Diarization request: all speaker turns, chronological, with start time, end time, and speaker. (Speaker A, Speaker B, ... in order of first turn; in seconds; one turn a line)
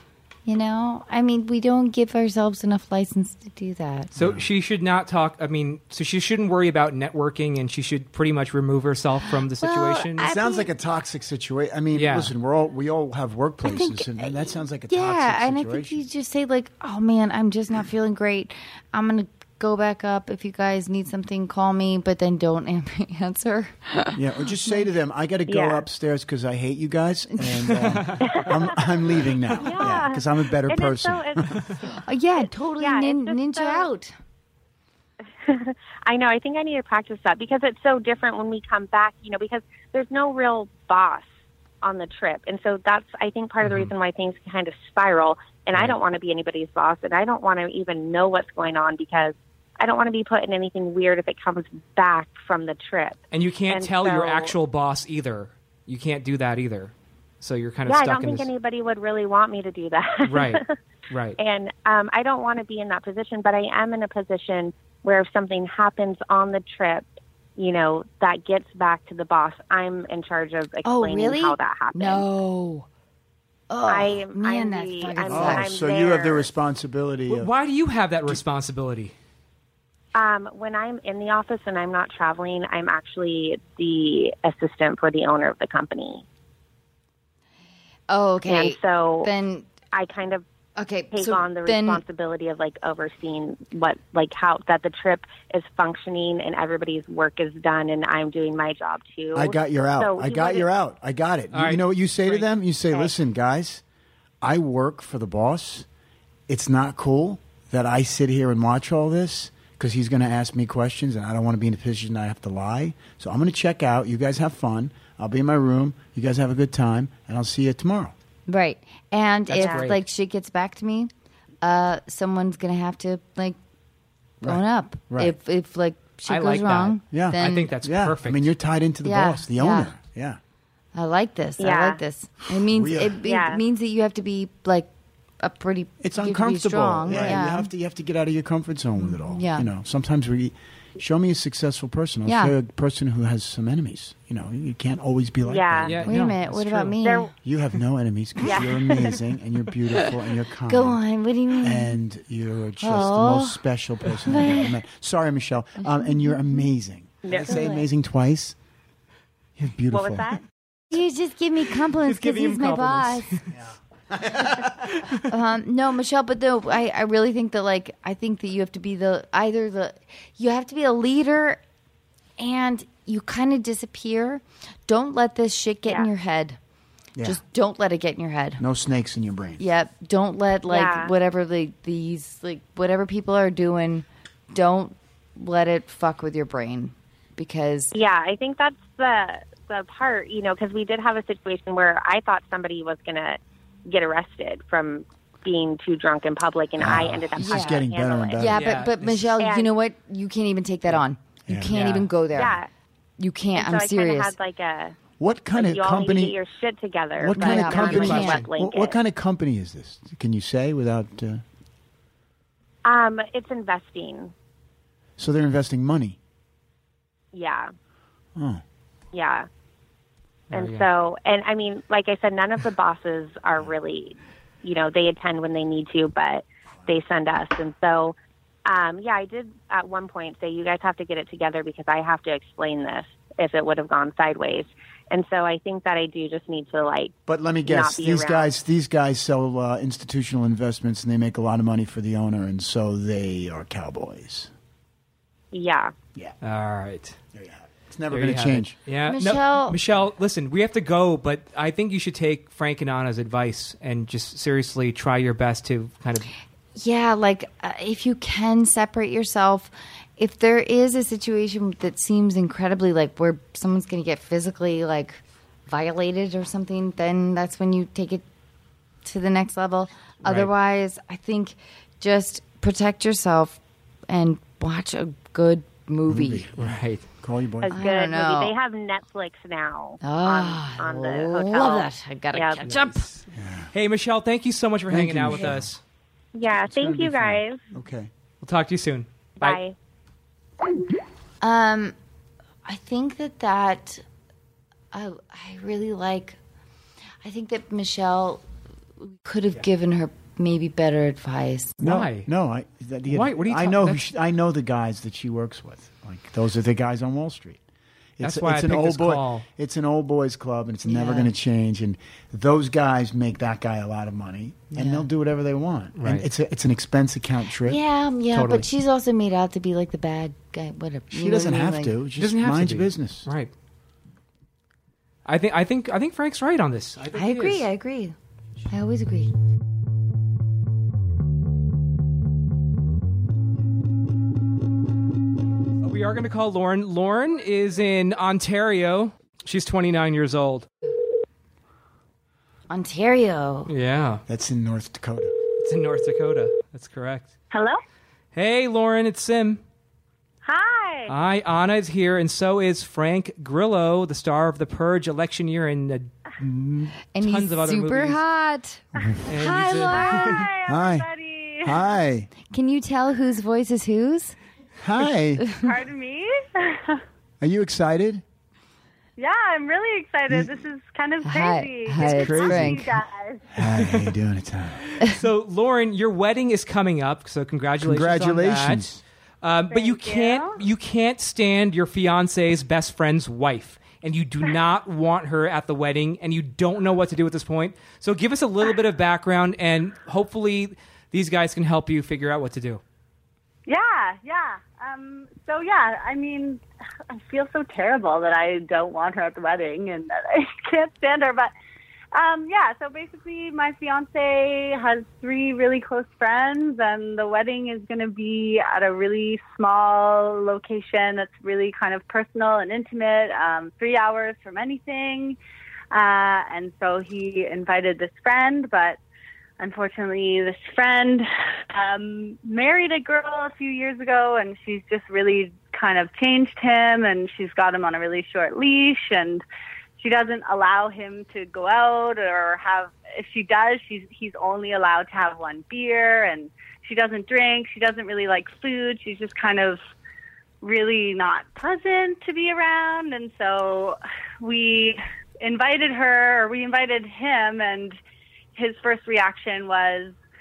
Speaker A: 0.5-4.1
Speaker B: 4.2-10.2
Speaker C: 4.2-4.5
Speaker A: 9.6-10.7
Speaker C: 10.2-16.0
Speaker B: 11.9-12.3
Speaker A: 13.6-14.3
Speaker A: 14.9-24.9
Speaker C: 24.1-31.6
Speaker D: 25.5-25.9
Speaker A: 27.3-27.7
Speaker B: 27.8-28.4
Speaker D: 28.2-28.8
Speaker D: 29.6-31.4
Speaker A: 31.9-34.1
Speaker D: 32.8-33.9
Speaker D: 35.5-41.3
Speaker D: 41.8-54.5
Speaker B: 43.6-43.9
Speaker B: 53.3-58.5
Speaker D: 57.9-60.7
Speaker B: 60.3-61.4
Speaker D: 61.4-72.2
Speaker A: 70.8-72.9
Speaker A: 73.7-75.7
Speaker D: 73.9-76.5
Speaker C: 75.3-77.5
Speaker B: 77.3-79.1
Speaker D: 80.2-86.2
Speaker A: 88.1-89.7
Speaker D: 88.5-89.3
Speaker D: 89.9-90.5
Speaker A: 90.8-92.0
Speaker D: 91.1-100.7
Speaker C: 99.3-103.8
Speaker B: 101.5-102.5
Speaker C: 104.4-105.9
Speaker C: 106.5-118.1
Speaker A: 118.5-121.1
Speaker B: 119.5-120.0
Speaker D: 119.5-119.9
Speaker A: 121.6-123.6
Speaker A: 124.4-127.7
Speaker C: 124.4-125.3
Speaker B: 126.3-128.5
Speaker C: 127.1-130.4
Speaker A: 129.0-129.9
Speaker A: 130.9-134.9
Speaker D: 131.6-132.0
Speaker C: 132.7-133.2
Speaker D: 133.2-133.6
Speaker A: 135.4-137.7
Speaker C: 136.0-146.4
Speaker A: 139.0-139.7
Speaker A: 142.3-142.6
Speaker D: 145.4-146.0
Speaker B: 145.8-146.9
Speaker A: 146.1-147.3
Speaker D: 147.0-147.3
Speaker C: 147.4-151.0
Speaker D: 148.4-149.1
Speaker A: 150.7-152.0
Speaker C: 151.6-158.6
Speaker A: 152.8-153.6
Speaker A: 154.3-154.7
Speaker A: 155.8-156.6
Speaker D: 157.2-157.7
Speaker A: 157.5-157.8
Speaker C: 159.6-160.4
Speaker D: 159.9-160.4
Speaker A: 160.9-163.3
Speaker B: 162.0-163.5
Speaker C: 163.5-164.9
Speaker B: 164.9-165.2
Speaker A: 165.3-171.6
Speaker A: 172.4-176.6
Speaker D: 175.8-176.1
Speaker C: 177.2-177.4
Speaker A: 177.2-178.6
Speaker C: 178.6-179.6
Speaker A: 179.6-187.9
Speaker D: 180.7-181.1
Speaker D: 187.9-198.4
Speaker C: 196.8-198.7
Speaker A: 197.4-197.8
Speaker A: 198.4-202.6
Speaker B: 198.5-199.3
Speaker D: 199.4-199.7
Speaker C: 201.5-201.8
Speaker B: 201.7-202.1
Speaker D: 202.3-202.7
Speaker A: 203.2-204.3
Speaker D: 203.5-205.0
Speaker C: 205.2-206.4
Speaker D: 205.5-209.0
Speaker C: 207.2-211.4
Speaker A: 207.4-208.4
Speaker B: 207.8-208.5
Speaker D: 212.8-214.3
Speaker C: 215.2-216.2
Speaker D: 217.3-217.7
Speaker C: 218.4-218.6
Speaker D: 219.1-219.5
Speaker B: 220.5-220.9
Speaker D: 220.5-237.1
Speaker C: 237.3-244.5
Speaker D: 237.7-238.5
Speaker D: 245.5-245.9
Speaker B: 246.4-247.2
Speaker C: 247.3-248.8
Speaker B: 248.1-256.3
Speaker A: 249.1-249.8
Speaker A: 256.8-268.2
Speaker A: 269.1-276.5
Speaker B: 270.2-270.5
Speaker C: 276.1-277.8
Speaker B: 276.6-277.0
Speaker D: 277.6-282.7
Speaker A: 277.7-278.5
Speaker A: 280.0-283.1
Speaker C: 283.3-283.7
Speaker B: 283.7-285.8
Speaker C: 284.9-285.7
Speaker D: 286.3-287.6
Speaker C: 286.7-288.1
Speaker B: 288.4-289.6
Speaker D: 289.4-289.8
Speaker A: 291.4-291.9
Speaker A: 292.7-294.0
Speaker A: 294.9-296.4
Speaker A: 297.2-298.4
Speaker A: 299.0-301.8
Speaker C: 301.8-307.6
Speaker B: 301.8-302.3
Speaker B: 303.1-304.0
Speaker C: 308.2-317.8
Speaker B: 308.2-309.4
Speaker A: 310.9-311.3
Speaker A: 314.7-315.1
Speaker B: 316.0-316.3
Speaker A: 317.7-322.0
Speaker C: 318.3-318.7
Speaker C: 321.1-323.3
Speaker B: 322.2-323.5
Speaker B: 325.3-327.7
Speaker A: 327.1-328.1
Speaker A: 328.7-329.3
Speaker B: 335.8-340.7
Speaker A: 342.7-343.7
Speaker B: 343.7-344.2
Speaker C: 344.3-345.3
Speaker B: 345.6-347.3
Speaker E: 347.5-347.8
Speaker B: 348.3-349.6
Speaker E: 350.4-351.1
Speaker B: 351.1-356.1
Speaker C: 356.4-356.9
Speaker A: 357.1-360.4
Speaker B: 357.2-358.2
Speaker B: 359.3-360.4
Speaker E: 359.9-361.8
Speaker C: 360.6-361.1
Speaker C: 361.6-362.3
Speaker A: 362.5-364.4
Speaker C: 364.8-365.5
Speaker E: 365.6-367.0
Speaker C: 367.4-368.2
Speaker E: 369.2-373.5
Speaker A: 371.2-372.9
Speaker C: 372.0-372.9
Speaker C: 373.5-374.9
Speaker B: 373.7-374.0
Speaker B: 375.0-378.9
Speaker C: 377.8-379.0
Speaker B: 379.4-392.8
Speaker E: 379.7-380.6
Speaker E: 393.7-401.5
Speaker E: 402.1-415.4
Speaker E: 415.9-419.0
Speaker E: 419.6-429.4
Speaker E: 430.0-439.8
Speaker E: 440.6-448.0
Speaker E: 448.6-450.2